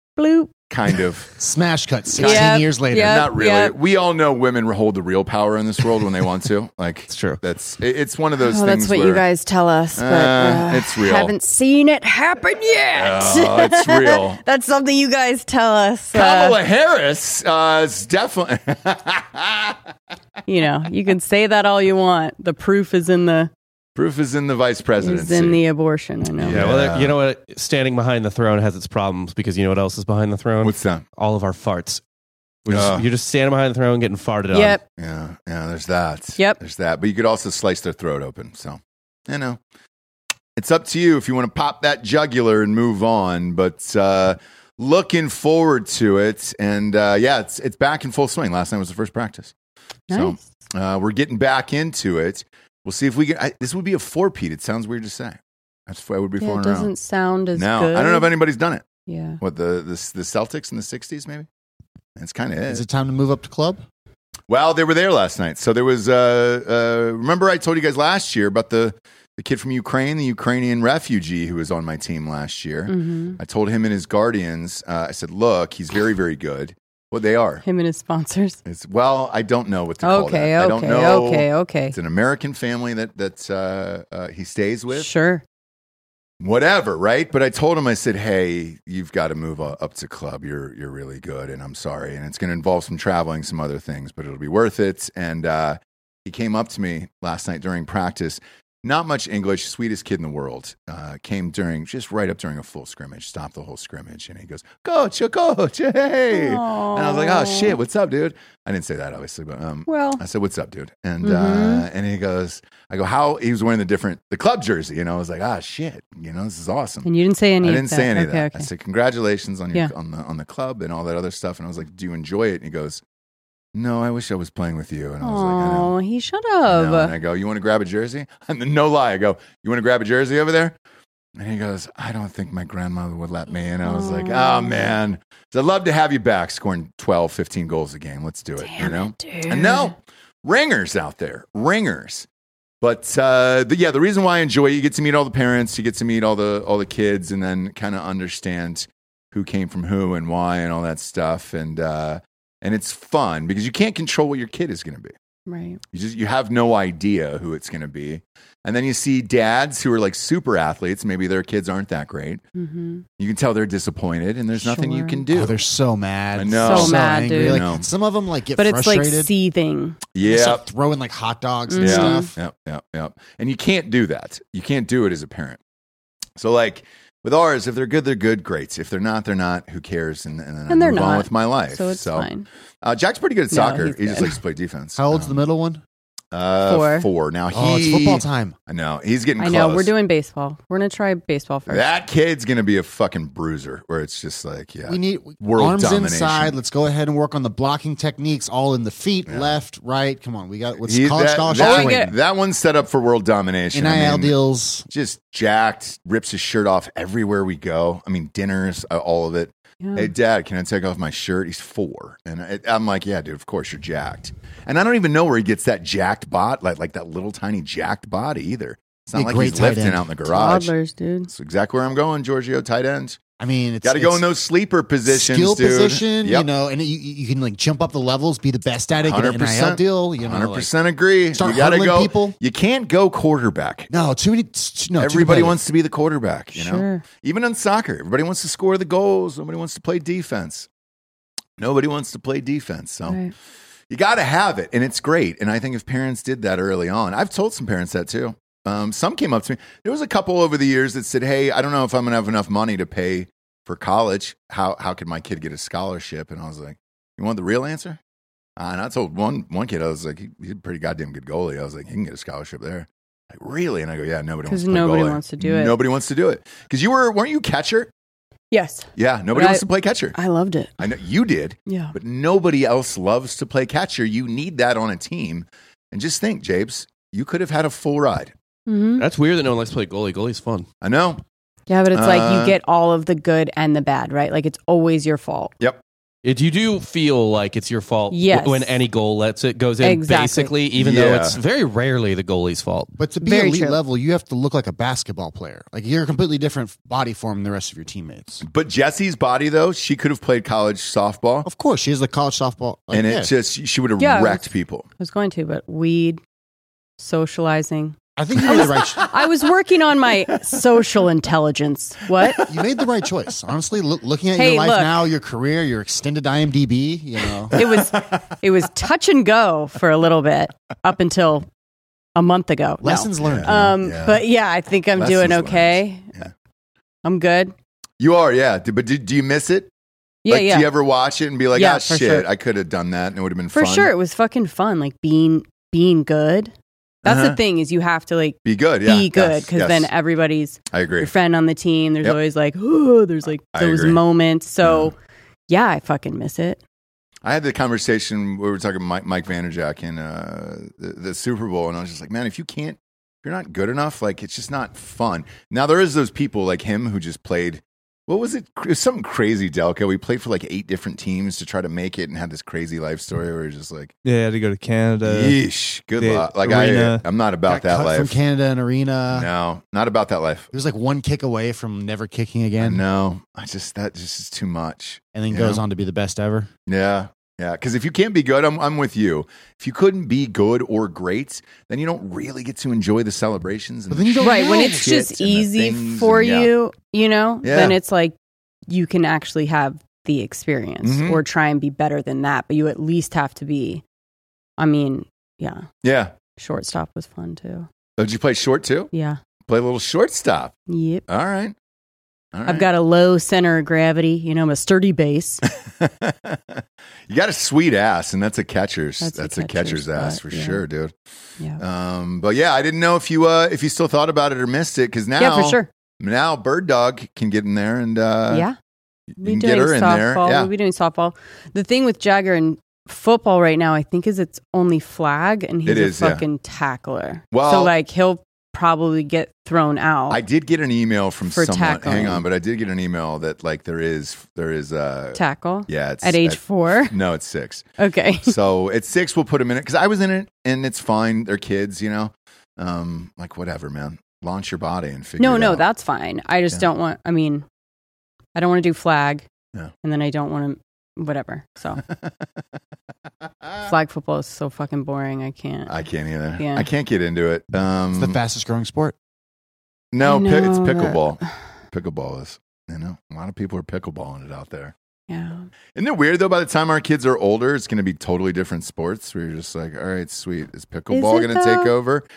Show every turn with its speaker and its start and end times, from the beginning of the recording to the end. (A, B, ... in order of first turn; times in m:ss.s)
0:00.2-0:00.5 A
0:00.7-0:01.3 B
0:01.4-0:03.3 C
0:02.2-0:03.8 A
0:02.2-0:09.2 B
0:07.1-0:07.4 D
0:08.4-0:16.6 A
0:10.0-0:11.3 B
0:12.9-0:14.4 B
0:16.1-0:19.8 B
0:20.4-0:23.5 A
0:23.9-0:25.6 B
0:25.0-0:26.6 A
0:26.4-0:27.1 B
0:26.5-0:32.0 D
0:30.6-0:31.0 B
0:32.6-0:34.8 D
0:32.7-0:33.0 B
0:34.5-0:34.8 A
0:35.0-0:39.6 B
0:40.6-0:49.5 B
0:50.1-0:50.4 A
0:50.1-0:56.9 B
0:56.4-0:58.3 A
0:57.5-0:58.8 B
0:59.1-0:59.4 A
0:59.4-1:01.5 B
1:02.2-1:02.8 B
1:02.7-1:03.8 C
1:04.5-1:17.6 B
1:12.9-1:13.4 A
1:17.6-1:18.6 A
1:18.6-1:25.1 B
1:20.0-1:22.0 A
1:24.9-1:25.4 A
1:26.4-1:57.1 B
1:46.3-1:47.8 A
1:49.9-1:50.2 A
1:51.2-1:51.8 A
1:57.0-1:58.7 A
1:57.6-2:03.0 B
2:03.7-2:05.9 B
2:05.2-2:07.1 A
2:06.7-2:10.7 B
2:11.4-2:22.3 B
2:13.8-2:14.9 A
2:18.6-2:19.9 A
2:22.8-2:35.1 B
2:35.5-2:35.8 A
2:35.9-2:42.4 B
2:42.5-2:43.0 A
2:43.2-2:45.6 B
2:44.6-2:45.2 A
2:45.3-2:49.3 C
2:46.3-2:47.9 B
2:46.6-2:47.6 A
2:48.6-2:50.0 A
2:50.1-2:50.6 B
2:50.2-2:52.3 C
2:51.7-2:52.3 A
2:51.8-2:55.6 B
2:56.4-3:02.3 B
3:00.7-3:02.4 A
3:02.8-3:05.4 B
3:03.5-3:04.4 A
3:05.0-3:05.8 C
3:06.3-3:09.9 B
3:06.6-3:07.1 A
3:07.5-3:08.6 C
3:09.4-3:11.9 A
3:11.7-3:16.6 B
3:14.9-3:22.2 C
3:19.3-3:19.6 B
3:20.8-3:24.4 B
3:21.5-3:22.1 A
3:23.7-3:24.8 C
3:24.9-3:40.7 B
3:29.8-3:30.1 A
3:39.1-3:40.1 C
3:40.3-3:41.3 A
3:41.3-3:43.2 B
3:43.4-3:44.2 C
3:43.8-3:46.5 B
3:45.0-3:50.7 C
3:49.0-3:53.9 B
3:51.3-3:52.4 C
3:53.9-3:55.6 C
3:55.0-4:00.7 B
3:56.5-3:57.0 A
4:01.6-4:03.2 B
4:03.1-4:03.3 A
4:03.9-4:18.0 B
4:18.6-4:27.9 B
4:24.5-4:25.8 A
4:28.5-4:30.7 A
4:28.9-4:30.2 B
4:30.8-4:38.3 B
4:31.6-4:32.0 A
4:38.7-4:39.0 A
4:39.0-4:40.7 D
4:40.8-4:41.2 B
4:41.7-4:45.5 A
4:41.9-4:42.6 B
4:46.2-4:52.9 D
4:48.1-4:48.8 A
4:49.8-4:50.5 A
4:50.7-4:51.4 B
4:53.0-4:58.4 C
4:53.2-4:53.8 A
4:58.4-5:01.5 B
5:01.4-5:03.3 C
5:02.9-5:04.9 B
5:04.0-5:04.5 A
5:05.0-5:06.2 A
5:07.0-5:12.4 A
5:08.2-5:09.1 C
5:12.4-5:17.6 C
5:14.3-5:15.0 A
5:17.5-5:21.4 A
5:17.5-5:18.2 B
5:22.2-5:26.1 A
5:22.8-5:23.8 C
5:23.2-5:24.2 B
5:24.9-5:26.3 B
5:27.0-5:27.5 A
5:28.0-5:29.7 B
5:30.2-5:30.7 A
5:30.3-5:33.9 B
5:31.5-5:32.3 A
5:33.5-5:36.5 A
5:37.0-5:37.4 B
5:37.0-5:44.9 A
5:38.4-5:39.9 B
5:40.7-5:41.1 B
5:43.5-5:44.0 B
5:44.6-5:44.9 B
5:45.5-5:46.6 A
5:47.2-6:03.9 B
6:04.0-6:05.4 E
6:05.0-6:08.2 B
6:06.0-6:07.0 E
6:07.5-6:09.3 C
6:09.1-6:10.5 B
6:10.5-6:12.8 C
6:12.6-6:15.6 B
6:15.1-6:16.5 C
6:16.6-6:26.5 B
6:23.9-6:25.0 C
6:24.2-6:28.1 A
6:27.4-6:27.8 B
6:28.7-6:33.8 A
6:30.8-6:31.2 B
6:34.6-6:35.7 A
6:35.8-6:36.1 B
6:36.4-6:37.7 A
6:38.0-6:38.9 B
6:38.9-6:39.2 A
6:39.5-6:40.5 B
6:40.7-6:41.0 A
6:41.1-6:41.5 B
6:42.3-6:42.7 B
6:42.5-6:45.4 A
6:45.6-6:50.9 B
6:49.0-6:50.6 A
6:51.6-6:58.5 B
6:55.2-6:55.7 A
6:58.3-6:58.5 A
6:59.2-7:00.5 B
6:59.2-7:10.2 A
7:05.6-7:06.2 B
7:07.3-7:07.7 B
7:10.1-7:17.6 B
7:11.2-7:12.2 A
7:15.1-7:16.9 A
7:17.8-7:18.3 A
7:18.2-7:25.6 B
7:25.2-7:27.4 A
7:28.3-7:29.3 A
7:29.8-7:31.8 A
7:33.6-7:35.7 A
7:35.7-7:38.2 B
7:36.4-7:36.7 A
7:37.9-7:38.9 C
7:39.9-7:44.7 B
7:40.0-7:41.1 A
7:45.1-7:45.4 A
7:45.7-7:52.0 B
7:50.9-7:51.7 A